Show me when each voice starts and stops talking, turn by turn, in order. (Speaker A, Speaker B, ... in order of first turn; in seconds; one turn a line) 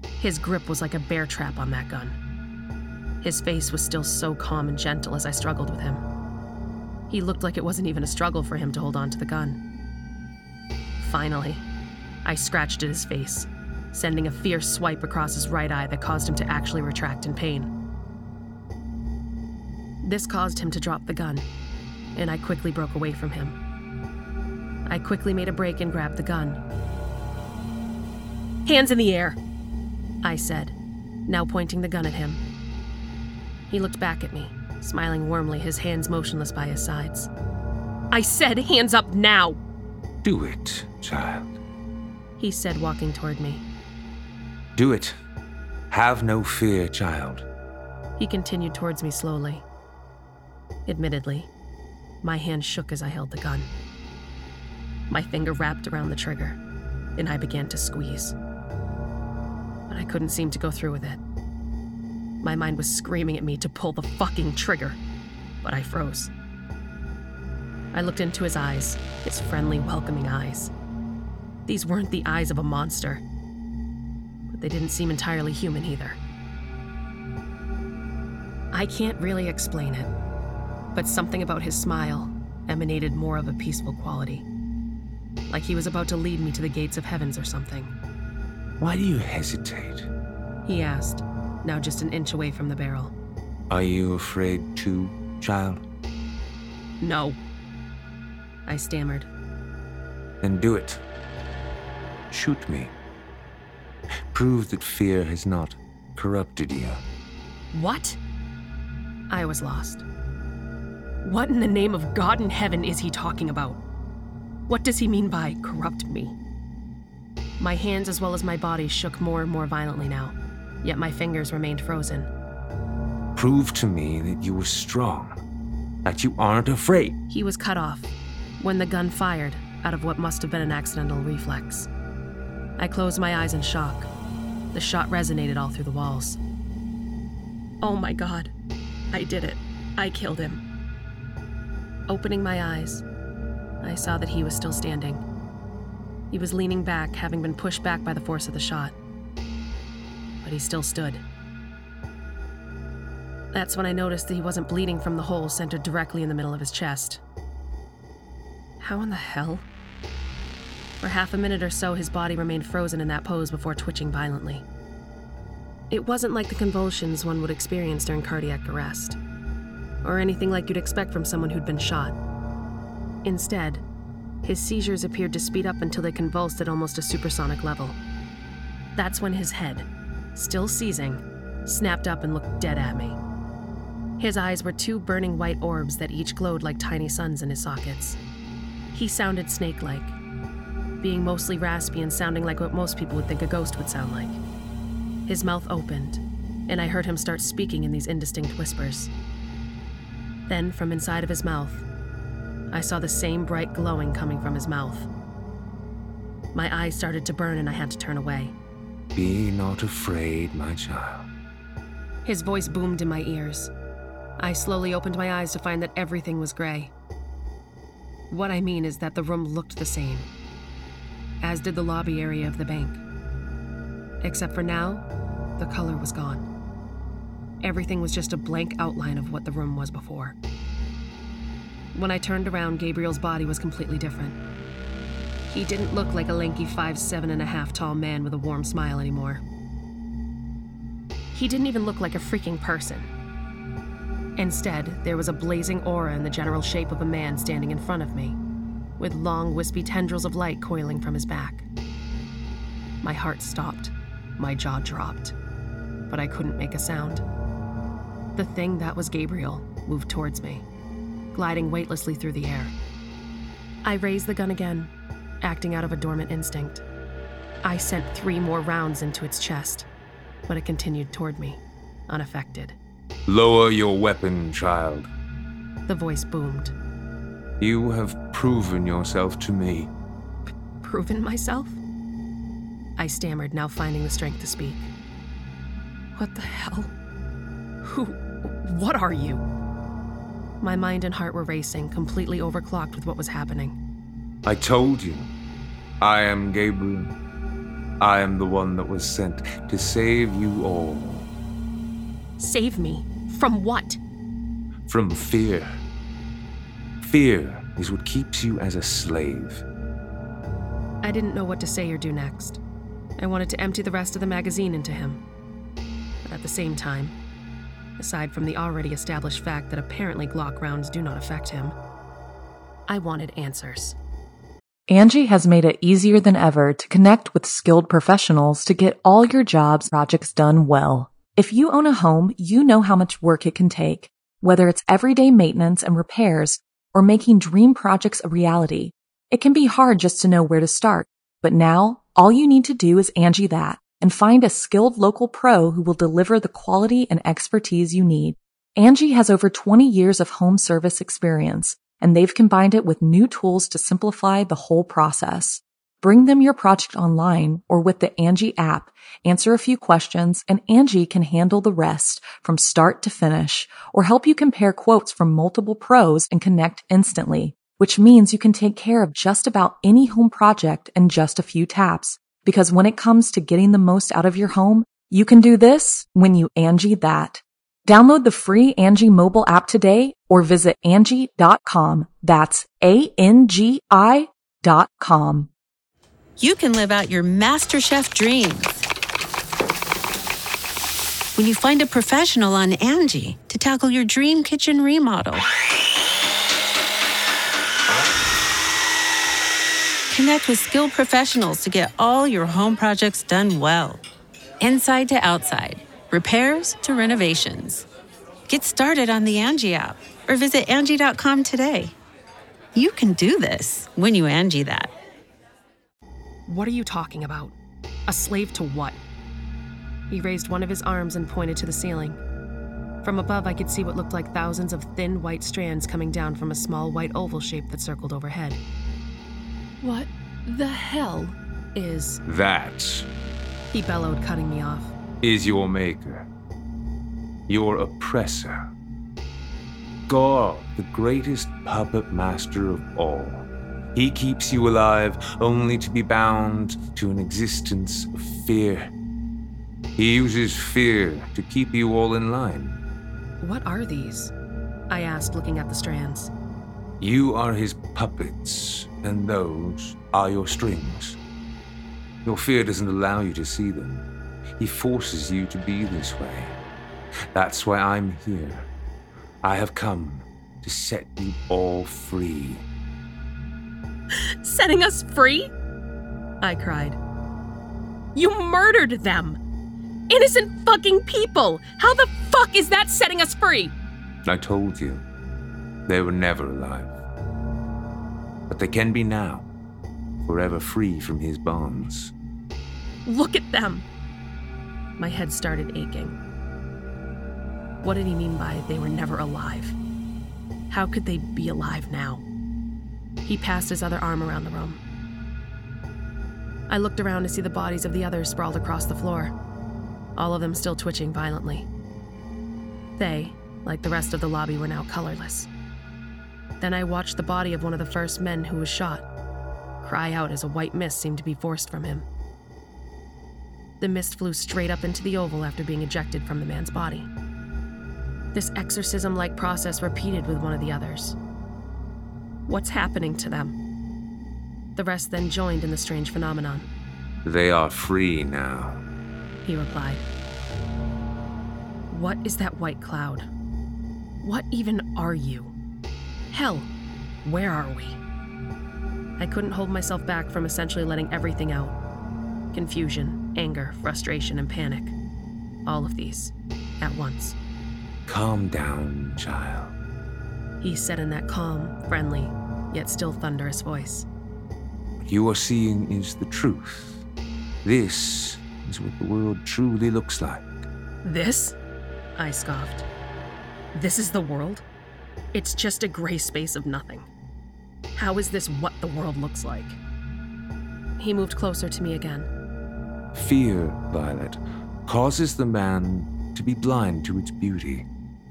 Speaker A: 0.2-2.1
Speaker A: 3.2-6.0
Speaker A: 7.1-9.6
Speaker A: 11.0-11.6
Speaker A: 12.2-17.7
Speaker A: 20.0-21.4
Speaker A: 22.1-23.5
Speaker A: 24.9-26.6
Speaker A: 28.6-29.4
Speaker A: 30.2-30.7
Speaker A: 31.3-32.4
Speaker A: 33.7-37.3
Speaker A: 38.1-39.6
Speaker B: 40.2-41.5
Speaker A: 42.4-43.6
Speaker B: 44.8-45.1
Speaker B: 45.9-47.5
Speaker A: 48.2-49.6
Speaker A: 50.9-51.5
Speaker A: 52.2-53.7
Speaker A: 55.1-56.6
Speaker A: 57.1-58.3
Speaker A: 59.9-61.2
Speaker A: 62.4-65.0
Speaker A: 65.6-66.3
Speaker A: 67.9-70.7
Speaker A: 71.7-73.2
Speaker A: 74.5-76.2
Speaker A: 78.7-80.1
Speaker A: 80.9-84.5
Speaker A: 85.5-87.9
Speaker B: 88.8-90.1
Speaker A: 90.6-93.1
Speaker B: 93.7-95.8
Speaker A: 97.0-97.4
Speaker A: 98.7-99.3
Speaker B: 100.4-101.0
Speaker B: 102.3-102.9
Speaker B: 104.2-107.0
Speaker A: 107.7-108.2
Speaker A: 109.3-110.0
Speaker A: 111.2-113.8
Speaker A: 114.7-116.3
Speaker A: 117.6-122.3
Speaker B: 123.3-125.4
Speaker B: 126.0-127.2
Speaker A: 127.3-131.9
Speaker A: 132.8-134.1
Speaker A: 134.7-136.4
Speaker A: 137.8-138.5
Speaker A: 139.1-140.6
Speaker A: 142.1-143.0
Speaker A: 143.8-145.2
Speaker A: 146.3-148.9
Speaker A: 150.4-151.2
Speaker A: 153.5-157.2
Speaker A: 158.8-159.6
Speaker A: 161.0-164.6
Speaker A: 165.9-169.2
Speaker A: 170.0-172.2
Speaker A: 173.2-173.8
Speaker A: 174.4-177.9
Speaker A: 178.9-183.2
Speaker A: 184.2-188.2
Speaker A: 188.9-190.2
Speaker A: 191.0-194.4
Speaker A: 195.3-199.1
Speaker A: 200.5-201.8
Speaker A: 202.7-205.1
Speaker A: 206.5-208.5
Speaker B: 209.1-211.3
Speaker A: 212.2-213.7
Speaker A: 214.4-216.9
Speaker A: 218.3-220.3
Speaker A: 221.4-223.0
Speaker A: 224.2-225.0
Speaker A: 225.6-226.4
Speaker A: 227.6-230.3
Speaker A: 231.9-234.4
Speaker A: 235.5-239.4
Speaker A: 241.3-243.1
Speaker A: 244.4-248.4
Speaker A: 249.0-251.7
Speaker A: 253.0-255.3
Speaker A: 256.1-257.2
Speaker A: 258.4-260.6
Speaker A: 261.3-262.7
Speaker A: 263.8-264.9
Speaker A: 265.4-266.8
Speaker A: 267.6-269.9
Speaker A: 270.5-272.8
Speaker B: 273.3-275.1
Speaker A: 275.9-276.7
Speaker B: 277.6-279.9
Speaker A: 280.8-281.8
Speaker A: 283.0-284.9
Speaker A: 286.1-286.9
Speaker A: 287.8-289.4
Speaker A: 290.6-293.8
Speaker B: 294.4-295.3
Speaker B: 296.0-297.1
Speaker B: 298.0-301.3
Speaker A: 302.4-304.0
Speaker B: 304.9-305.8
Speaker B: 307.0-309.6
Speaker A: 311.0-312.6
Speaker A: 313.2-315.2
Speaker A: 316.2-317.1
Speaker A: 318.0-321.7
Speaker A: 322.9-323.9
Speaker C: 324.9-385.5
Speaker D: 386.4-388.9
Speaker D: 391.4-395.5
Speaker D: 400.1-404.0
Speaker D: 404.6-407.9
Speaker D: 408.5-411.9
Speaker D: 412.7-414.9
Speaker A: 416.5-417.5
Speaker A: 418.1-419.0
Speaker A: 420.1-422.2
Speaker A: 423.0-428.6
Speaker A: 429.8-432.2
Speaker B: 432.3-433.1
Speaker A: 433.7-434.9
Speaker B: 435.2-436.3
Speaker B: 437.5-438.7
Speaker B: 440.1-448.9
Speaker B: 449.9-452.8
Speaker A: 453.4-454.3
Speaker A: 454.9-456.3
Speaker B: 457.0-461.2
Speaker B: 462.2-464.0
Speaker B: 464.6-466.6
Speaker B: 467.3-468.7
Speaker B: 469.4-472.6
Speaker A: 474.1-475.5
Speaker A: 476.4-477.0
Speaker A: 478.1-479.4
Speaker A: 480.1-483.7
Speaker B: 484.2-485.0
Speaker B: 485.9-486.9
Speaker B: 488.5-489.5
Speaker B: 490.2-492.1
Speaker A: 493.1-493.8
Speaker A: 495.0-496.1
Speaker A: 497.8-499.8
Speaker A: 500.7-502.2
Speaker A: 503.2-504.8
Speaker A: 506.7-509.3
Speaker A: 510.1-511.7
Speaker A: 513.0-515.5
Speaker A: 516.6-519.0
Speaker A: 519.8-522.0
Speaker A: 523.8-527.1
Speaker A: 528.3-531.1
Speaker A: 532.5-533.5
Speaker A: 534.8-536.7
Speaker B: 537.2-538.8
Speaker A: 539.4-540.0
Speaker A: 541.9-543.2
Speaker A: 544.2-545.5
Speaker A: 546.3-546.7
Speaker A: 547.2-548.0
Speaker A: 549.2-551.8
Speaker A: 552.5-554.9
Speaker A: 555.6-557.4
Speaker B: 558.1-559.7
Speaker A: 560.6-564.0
Speaker B: 565.0-567.0
Speaker B: 567.6-570.5
Speaker A: 571.0-571.5
Speaker A: 572.1-572.9
Speaker A: 573.7-574.6
Speaker A: 575.3-577.0
Speaker A: 577.9-579.8
Speaker A: 581.0-582.3
Speaker B: 583.1-587.9